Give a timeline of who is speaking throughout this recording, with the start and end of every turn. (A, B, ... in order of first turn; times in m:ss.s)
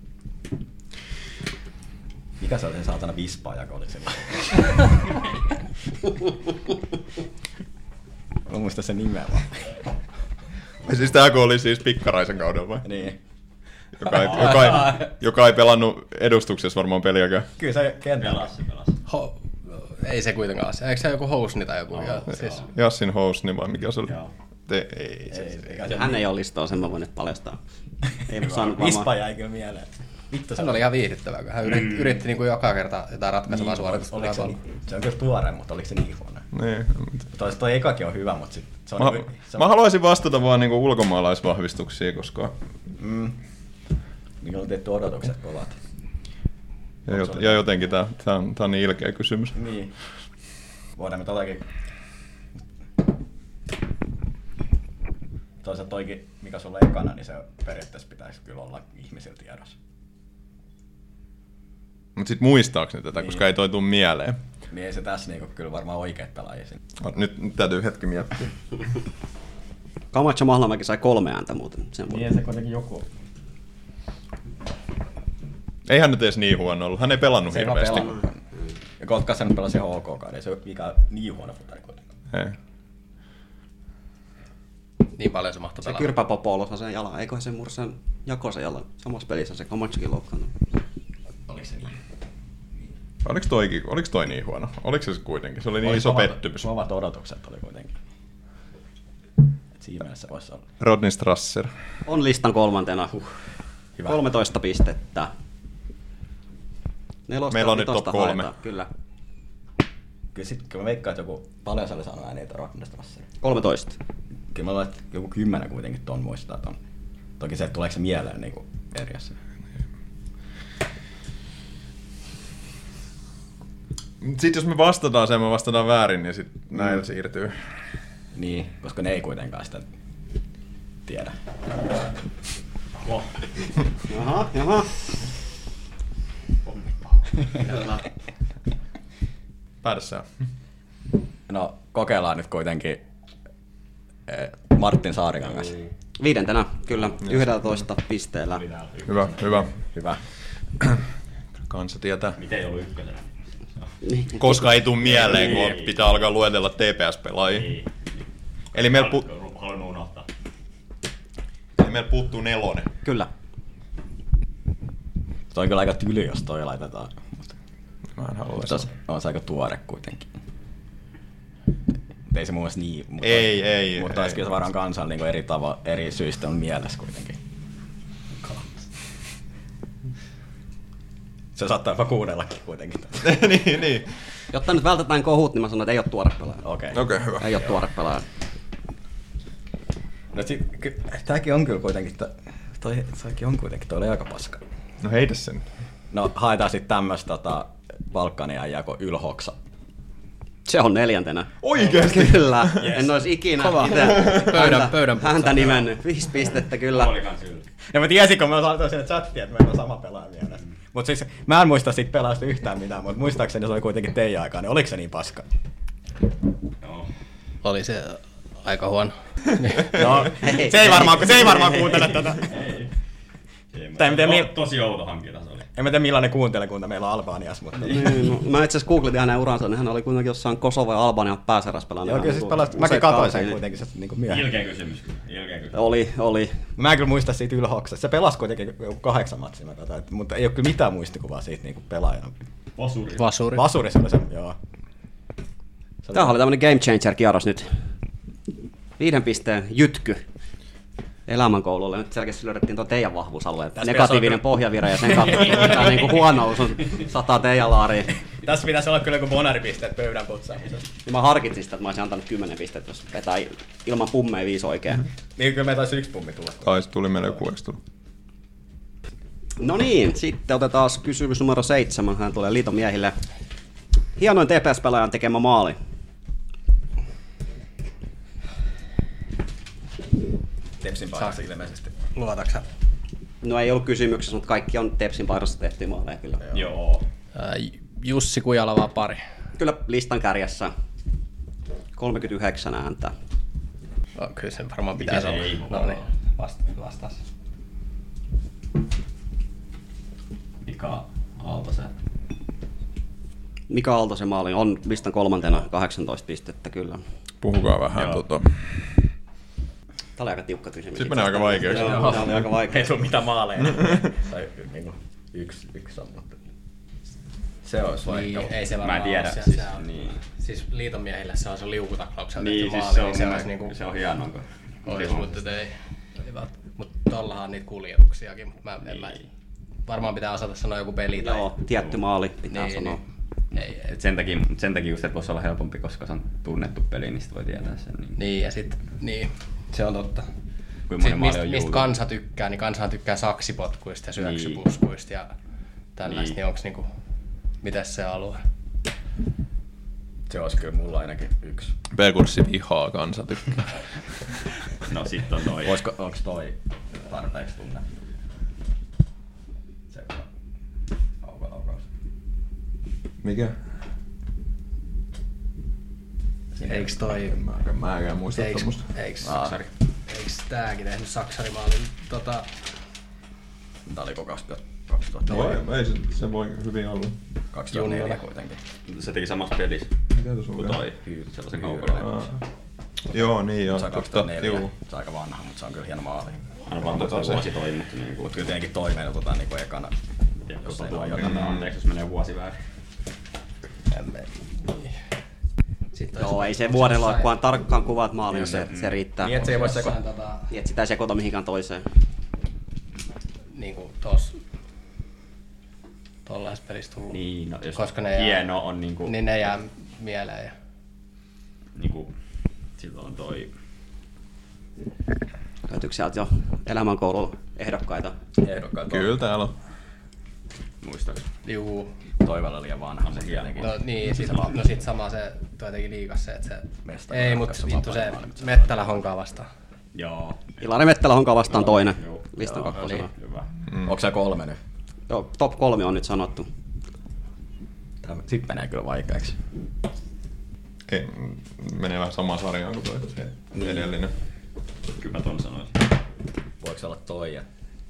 0:02.4-0:05.0 A
0:08.5-0:09.7 A
0:10.8-0:12.9 B
0:12.8-0:13.2 A
0:14.0-0:17.5 B
0:17.6-0:18.5 A
0:18.2-0:19.0 C
0:19.1-0:22.7 D
0:22.0-0:22.6 C
0:22.7-0:24.2 B
0:24.7-0:25.7 B
0:25.3-0:26.2 A
0:25.9-0:27.6 E
0:28.3-0:29.1 E
0:28.3-0:30.8 A
0:30.6-0:34.6 D
0:33.5-0:36.5 A
0:36.5-0:37.3 B
0:37.3-0:39.7 A
0:39.0-0:42.5 B
0:43.0-0:43.4 A
0:44.4-0:45.8 A
0:47.1-0:49.6 B
0:47.1-0:47.6 A
0:49.6-0:49.9 A
0:51.0-0:51.7 A
0:55.6-0:59.8 A
1:02.2-1:04.4 B
1:04.7-1:06.8 A
1:07.0-1:08.5 B
1:10.1-1:12.2 E
1:12.1-1:13.1 A
1:15.9-1:18.2 B
1:17.5-1:18.4 A
1:19.0-1:22.0 A
1:22.3-1:22.6 B
1:25.2-1:26.1 D
1:25.8-1:30.5 E
1:31.5-1:32.0 A
1:33.2-1:36.7 B
1:35.8-1:38.0 A
1:39.8-1:40.7 A
1:40.8-1:41.7 B
1:42.1-1:43.2 E
1:44.0-1:45.3 E
1:47.3-1:48.9 E
1:47.5-1:48.5 B
1:50.3-1:53.3 A
1:53.4-1:54.0 E
1:54.5-1:56.8 A
1:57.4-1:59.4 A
2:04.2-2:07.6 B
2:08.3-2:09.9 A
2:11.1-2:11.4 A
2:14.1-2:14.9 E
2:17.7-2:18.0 E
2:19.8-2:20.3 B
2:21.5-2:23.0 A
2:24.3-2:25.8 A
2:25.6-2:25.9 C
2:26.2-2:28.6 E
2:28.5-2:29.6 C
2:29.1-2:29.7 B
2:29.9-2:30.2 A
2:31.7-2:32.4 B
2:32.4-2:33.9 C
2:34.1-2:34.4 E
2:34.3-2:37.7 B
2:35.0-2:36.2 C
2:37.5-2:38.0 C
2:38.7-2:39.2 B
2:38.8-2:40.3 C
2:41.8-2:42.9 B
2:43.0-2:43.3 E
2:45.5-2:47.5 A
2:48.2-2:48.9 B
2:48.6-2:50.3 A
2:52.3-2:57.4 A
2:53.2-2:54.4 B
2:58.4-2:58.8 A
3:01.6-3:03.4 A
3:03.2-3:04.1 B
3:04.5-3:06.6 E
3:06.6-3:07.0 A
3:06.9-3:07.5 B
3:07.4-3:08.2 E
3:10.3-3:14.6 A
3:15.0-3:15.6 B
3:16.1-3:19.6 A
3:20.7-3:27.2 E
3:21.6-3:23.0 B
3:22.8-3:23.2 C
3:23.6-3:25.8 D
3:24.2-3:24.6 B
3:26.8-3:27.7 C
3:27.9-3:35.5 A
3:36.8-3:37.1 C
3:37.6-3:40.0 D
3:39.9-3:42.6 A
3:40.2-3:42.0 E
3:42.5-3:42.9 C
3:43.7-3:45.7 C
3:44.0-3:44.5 A
3:45.8-3:48.3 A
3:47.8-3:53.6 E
3:52.0-3:54.6 A
3:54.3-3:55.8 C
3:55.7-3:56.6 E
3:56.8-4:02.4 A
4:02.8-4:03.2 C
4:03.2-4:03.6 D
4:03.5-4:04.6 A
4:06.0-4:06.4 A
4:06.1-4:07.8 E
4:09.0-4:10.2 E
4:11.3-4:18.2 E
4:13.8-4:16.0 A
4:18.3-4:20.9 A
4:21.1-4:25.1 E
4:25.4-4:26.8 A
4:26.6-4:27.8 B
4:29.6-4:33.2 E
4:34.2-4:35.8 E
4:40.8-4:41.9 A
4:42.1-4:42.7 D
4:43.4-4:46.4 E
4:46.5-4:47.0 C
4:47.4-4:49.2 D
4:49.6-4:50.7 E
4:52.0-4:53.1 E
4:54.2-4:57.2 D
4:55.0-4:56.1 C
5:00.6-5:01.9 C
5:03.7-5:07.0 E
5:07.4-5:08.6 B
5:08.0-5:08.2 C
5:10.2-5:12.9 E
5:11.0-5:12.2 B
5:11.7-5:16.4 A
5:17.6-5:18.5 A
5:18.0-5:19.8 D
5:18.7-5:20.2 C
5:20.4-5:23.8 D
5:22.4-5:25.3 C
5:24.8-5:29.2 D
5:29.9-5:31.5 D
5:31.2-5:33.0 E
5:32.5-5:33.0 D
5:33.6-5:33.8 D
5:33.8-5:38.2 C
5:38.2-5:40.3 D
5:40.9-5:41.9 C
5:41.0-5:45.3 D
5:44.2-5:44.6 C
5:46.0-5:46.9 D
5:46.1-5:46.4 C
5:47.6-5:48.4 D
5:50.3-5:51.8 A
5:51.9-5:54.2 B
5:54.8-5:55.8 C
5:55.6-5:57.9 A
5:59.9-6:00.3 A
6:01.2-6:01.9 A
6:03.2-6:03.6 B
6:06.6-6:07.6 A
6:06.7-6:07.4 D
6:07.5-6:08.9 B
6:08.3-6:09.4 D
6:09.2-6:09.6 A
6:09.4-6:09.7 C
6:10.1-6:12.5 D
6:13.9-6:15.6 A
6:15.3-6:17.2 B
6:17.5-6:18.6 A
6:17.7-6:18.2 D
6:18.9-6:20.0 C
6:20.1-6:20.8 B
6:20.6-6:22.2 C
6:21.6-6:22.1 A
6:22.0-6:22.4 B
6:23.1-6:24.7 B
6:23.7-6:26.4 A
6:26.7-6:28.5 C
6:26.8-6:27.5 B
6:28.3-6:30.0 A
6:30.5-6:32.6 C
6:30.6-6:31.4 A
6:31.2-6:31.7 B
6:34.0-6:34.9 D
6:35.9-6:37.4 D
6:36.2-6:39.5 E
6:38.3-6:39.0 C
6:39.2-6:40.0 A
6:39.4-6:40.5 D
6:40.5-6:41.8 E
6:43.5-6:44.4 D
6:46.3-6:47.2 D
6:47.1-6:49.3 C
6:47.8-6:48.5 D
6:49.0-6:50.5 D
6:51.8-6:52.1 C
6:52.8-6:53.5 C
6:55.7-6:58.2 E
6:58.4-6:59.2 A
6:58.9-6:59.5 B
7:00.8-7:01.3 C
7:01.4-7:01.9 D
7:02.2-7:03.8 A
7:03.0-7:04.5 C
7:03.6-7:09.5 D
7:06.8-7:08.8 A
7:09.9-7:10.8 C
7:10.6-7:13.1 E
7:11.5-7:13.5 C
7:13.7-7:14.0 B
7:13.8-7:14.6 A
7:15.1-7:16.5 E
7:18.0-7:19.4 A
7:20.9-7:24.1 B
7:23.5-7:23.9 A
7:25.0-7:25.8 C
7:26.6-7:27.5 A